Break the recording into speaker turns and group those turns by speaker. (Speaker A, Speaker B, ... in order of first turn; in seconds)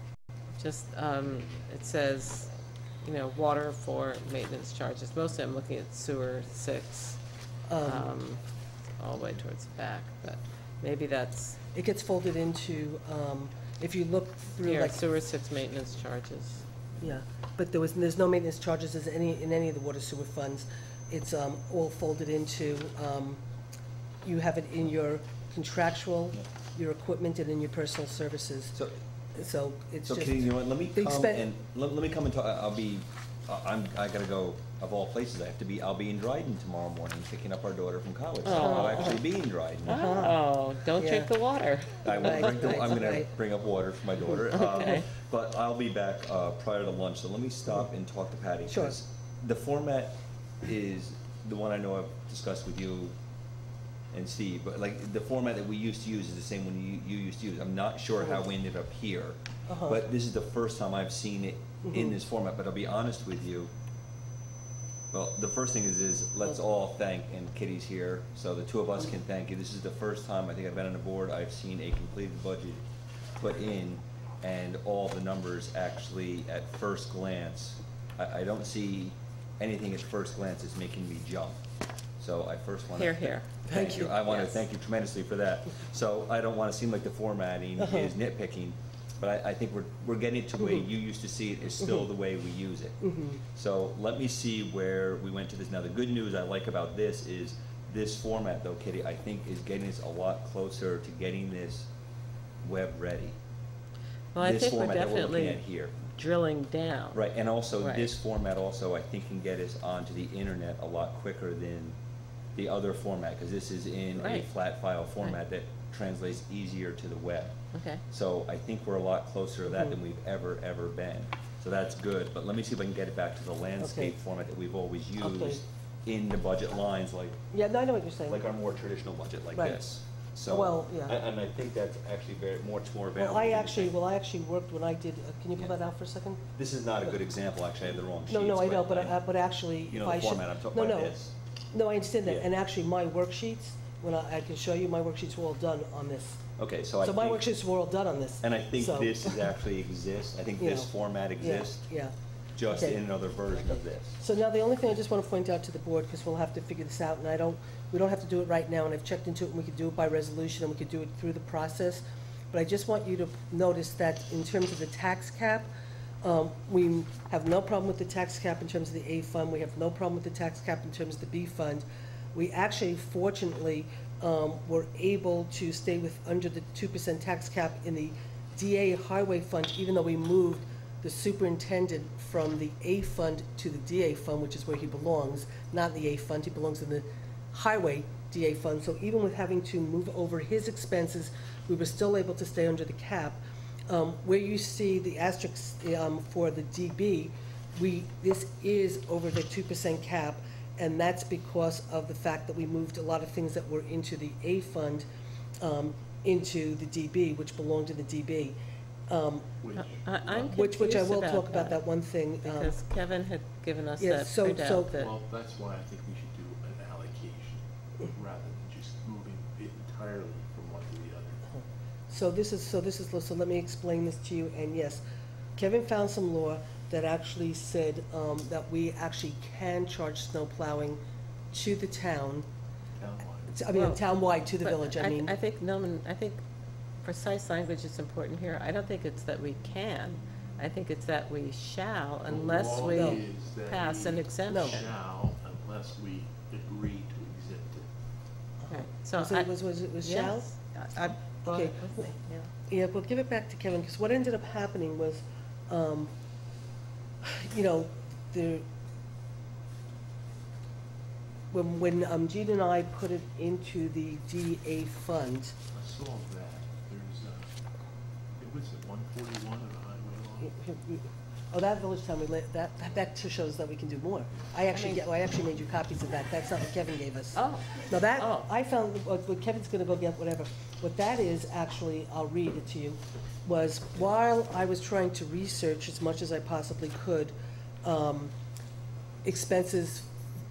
Speaker A: 0.6-2.5, 3.0-7.2, 7.8-8.4, 9.0-11.6, 14.6-16.6, 38.4-39.2, 39.9-42.9, 44.5-45.0, 82.9-83.5, 84.2-84.6, 104.3-107.2, 107.8-108.1, 114.2-114.5, 117.7-118.0, 209.8-211.8, 212.4-215.1, 233.7-234.1, 234.6-236.4, 237.0-244.8, 248.7-252.5, 274.7-275.0, 277.3-278.5
Speaker B: 7.7-8.1, 11.7-15.0, 17.0-23.4, 24.2-28.7, 29.3-31.4, 38.6-39.2, 39.9-40.4, 41.0-41.3, 42.1-43.3, 48.7-49.0, 59.7-60.0, 61.8-62.1, 83.7-84.2, 87.8-88.1, 93.0-93.4, 119.7-120.0, 123.8-124.1, 125.2-125.6, 127.5-128.4, 129.5-129.8, 130.5-131.2, 133.2-136.4, 138.3-141.1, 141.7-146.4, 147.0-149.5, 150.6-152.1, 152.7-165.7, 166.2-205.1, 205.6-208.6, 209.1-209.5, 210.5-212.8, 214.0-214.9, 221.5-225.0, 225.6-231.0, 231.5-232.4, 233.5-235.3, 242.9-243.2, 244.5-244.8, 248.6-250.5, 251.4-252.1, 252.7-256.1, 257.2-258.6, 261.5-265.5, 270.4-288.3, 289.2-290.1
Speaker C: 30.1-40.2, 42.0-53.1, 54.1-63.7, 65.1-72.8, 73.4-81.6, 82.2-101.9, 102.6-103.4, 104.4-106.0, 107.1-112.0, 112.5-117.6, 118.1-127.4, 128.2-133.9, 136.6-139.2, 139.8-141.3, 146.6-147.4, 148.4-151.9, 152.6-154.2
Speaker D: 209.6-210.5, 214.9-221.4, 232.9-233.6, 242.2-247.9, 265.7-267.5, 268.4-270.5